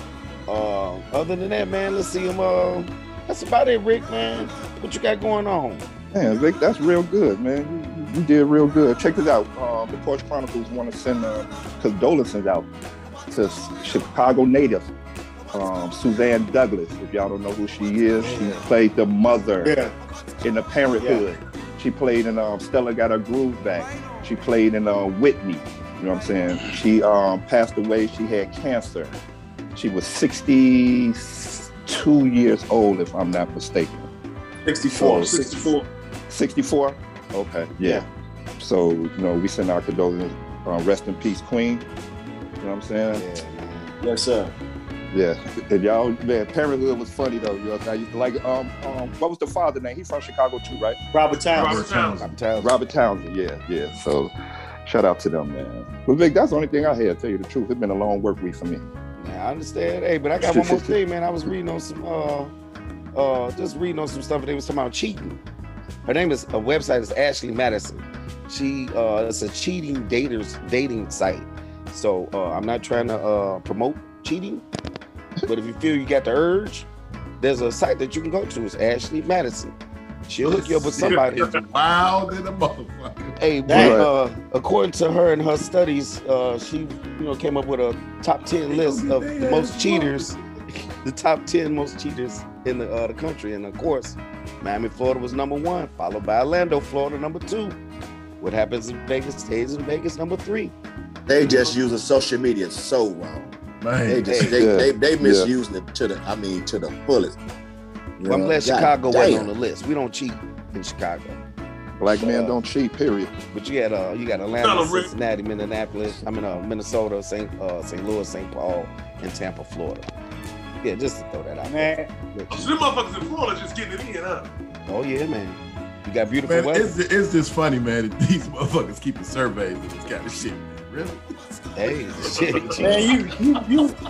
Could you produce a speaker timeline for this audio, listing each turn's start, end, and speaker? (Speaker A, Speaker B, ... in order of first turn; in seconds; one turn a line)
Speaker A: 0.5-5.9
Speaker B: 6.1-12.7
Speaker B: 13.3-14.9
Speaker B: 15.5-19.8
Speaker A: 18.2-18.6
Speaker C: 19.6-19.9
Speaker B: 20.4-29.2
Speaker C: 21.0-21.2
Speaker B: 29.8-34.1
Speaker D: 34.7-35.9
Speaker B: 35.0-35.4
Speaker C: 35.1-35.5
Speaker B: 36.3-38.0
Speaker B: 38.6-41.9
Speaker B: 42.6-43.2
Speaker A: 43.1-44.0
Speaker B: 45.1-51.0
Speaker C: 51.1-51.9
Speaker D: 51.5-52.2
Speaker E: 51.5-52.4
Speaker A: 52.2-52.8
Speaker B: 52.6-54.3
Speaker B: 54.9-58.9
Speaker A: 59.2-62.5
Speaker B: 60.4-61.0
Speaker A: 63.1-65.4
Speaker A: 66.1-74.6
Speaker A: 75.5-76.9
Speaker A: 77.4-79.7
Speaker A: 80.3-81.5
Speaker E: 80.4-83.4
Speaker D: 81.0-81.6
Speaker A: 83.4-90.4
Speaker C: 83.7-84.0
Speaker B: 83.7-84.1
Speaker E: 88.7-90.3
Speaker A: 91.0-97.8
Speaker A: 98.4-100.7
Speaker F: 101.3-107.4
Speaker E: 103.8-104.5
Speaker A: 104.3-104.6
Speaker B: 104.5-105.5
Speaker F: 108.2-109.5
Speaker A: 108.2-111.4
Speaker B: 112.0-113.3
Speaker A: 112.1-112.6
Speaker A: 113.5-120.1
Speaker D: 114.6-115.1
Speaker A: 120.8-122.7
Speaker C: 121.7-122.1
Speaker D: 122.5-124.5
Speaker A: 124.9-126.9
Speaker E: 126.5-133.3
Speaker A: 131.8-133.1
Speaker D: 132.2-132.8
Speaker C: 132.8-134.0